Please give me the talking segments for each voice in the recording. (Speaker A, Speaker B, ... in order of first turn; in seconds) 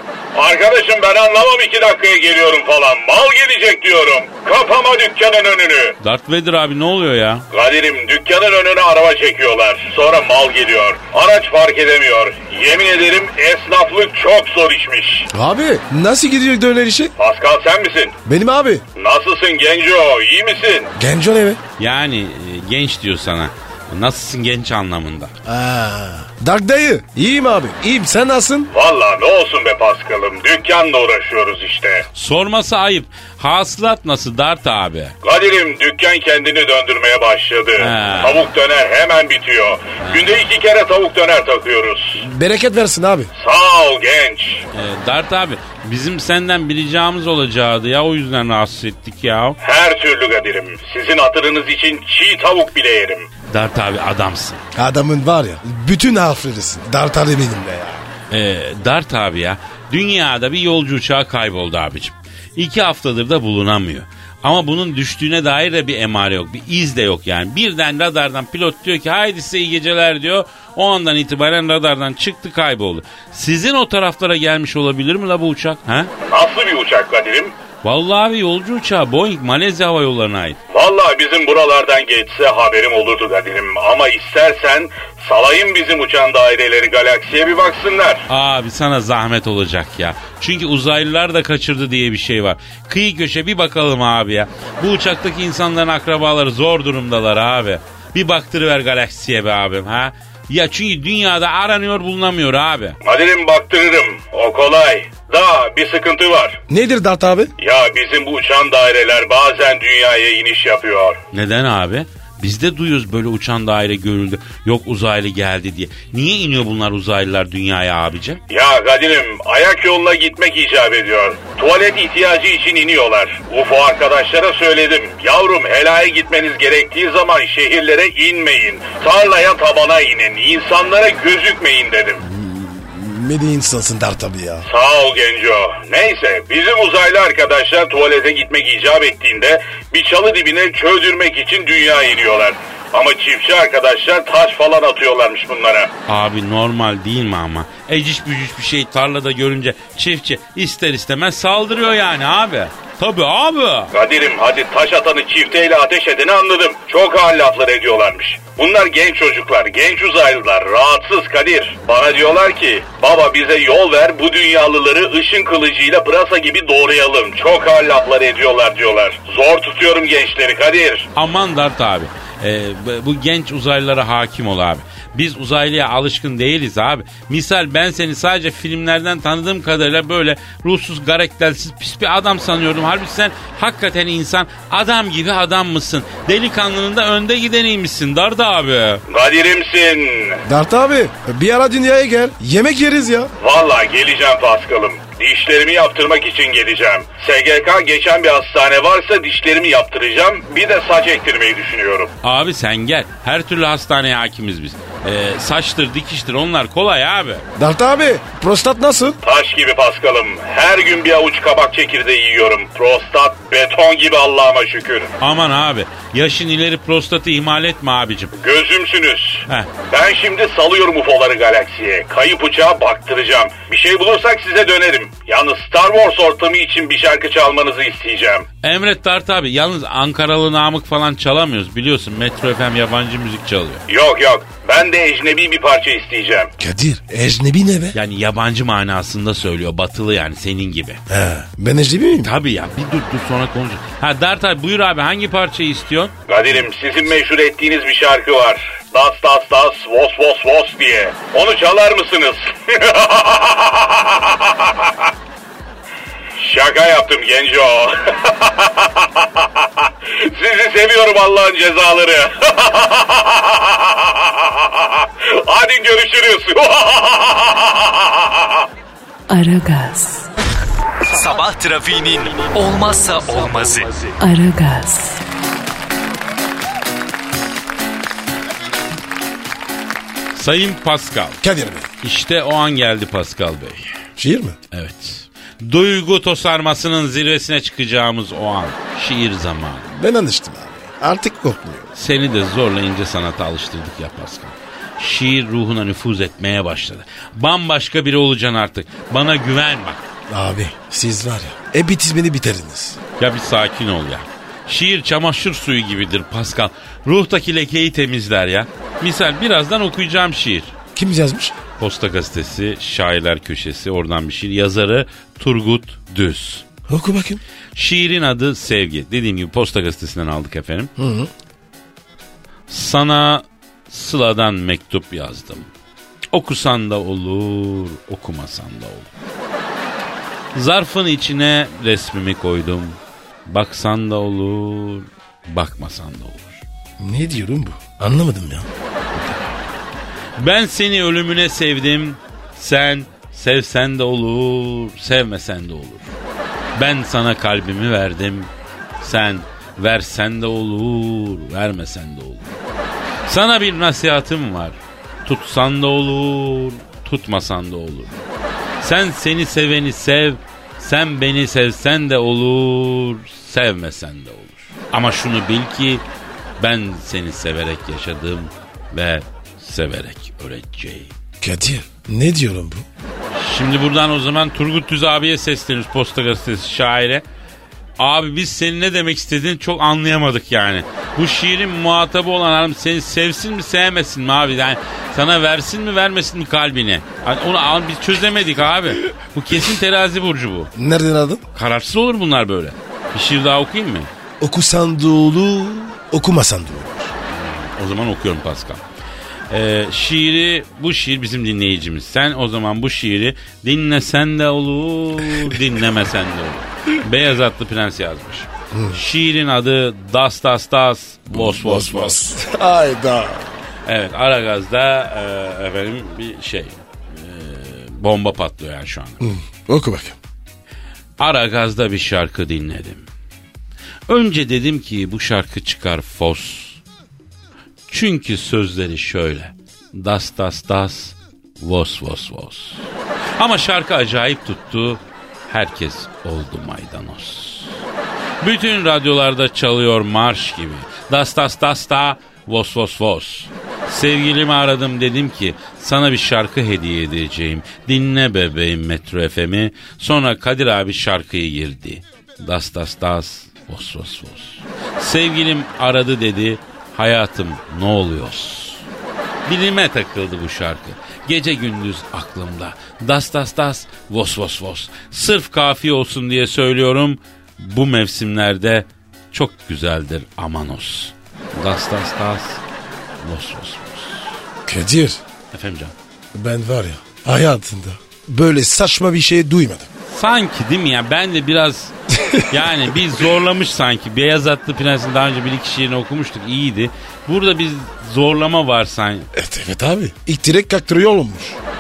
Speaker A: 0.3-6.0, 7.5-15.3, 17.2-18.2, 19.0-20.9, 28.7-32.1, 35.2-42.2, 43.4-44.6, 49.6-53.3, 76.2-77.5, 80.7-88.3, 103.0-106.6, 107.6-111.2, 118.5-132.2, 134.7-145.9, 153.9-171.1, 189.1-190.4, 193.4-202.1, 209.2-215.2, 218.4-228.5, 233.9-236.5, 246.3-254.9, 256.4-268.7
Speaker B: 6.0-7.5, 21.8-25.3, 32.1-35.1, 37.8-38.4, 40.0-40.4, 44.7-49.6, 53.5-54.6, 58.3-76.1, 77.8-80.6, 88.3-103.0, 111.3-118.4, 146.1-153.9, 171.2-189.0, 202.2-207.4, 215.2-218.3, 228.6-233.8, 237.9-241.0, 242.2-246.1, 280.4-281.4, 282.0-283.9, 284.7-289.9, 291.9-300.0, 303.2-310.8, 311.8-316.6, 317.8-320.9, 322.7-325.7, 326.3-329.1, 330.5-336.6, 339.1-339.6, 340.4-346.1, 346.8-348.5, 349.0-352.5, 353.3-358.1, 358.8-366.0, 366.6-371.1, 373.3-377.2, 378.0-390.7, 391.6-394.1, 397.3-398.8, 399.5-412.2, 413.9-419.2, 421.2-423.1, 424.1-426.8, 427.9-432.8, 433.4-437.8, 438.4-458.8, 459.5-472.6, 473.2-474.3, 475.5-475.9, 480.1-489.3
Speaker C: 15.3-17.1, 18.3-18.8, 21.0-21.6, 25.5-28.7, 42.2-43.3, 54.8-58.1, 106.7-107.5, 132.2-134.7, 190.4-193.3, 207.6-209.2, 236.6-238.0, 241.1-242.3, 281.4-281.9, 284.2-284.6, 289.9-291.9, 300.3-303.0, 310.9-311.6, 316.9-317.4, 321.0-321.3, 337.0-338.7, 371.4-372.9, 390.8-391.4, 394.4-397.1, 408.7-409.0, 411.3-413.6, 419.2-420.2, 474.7-475.2, 476.3-479.9, 489.3-491.6
Speaker D: 269.3-270.3, 274.2-275.2
Speaker E: 271.1-274.1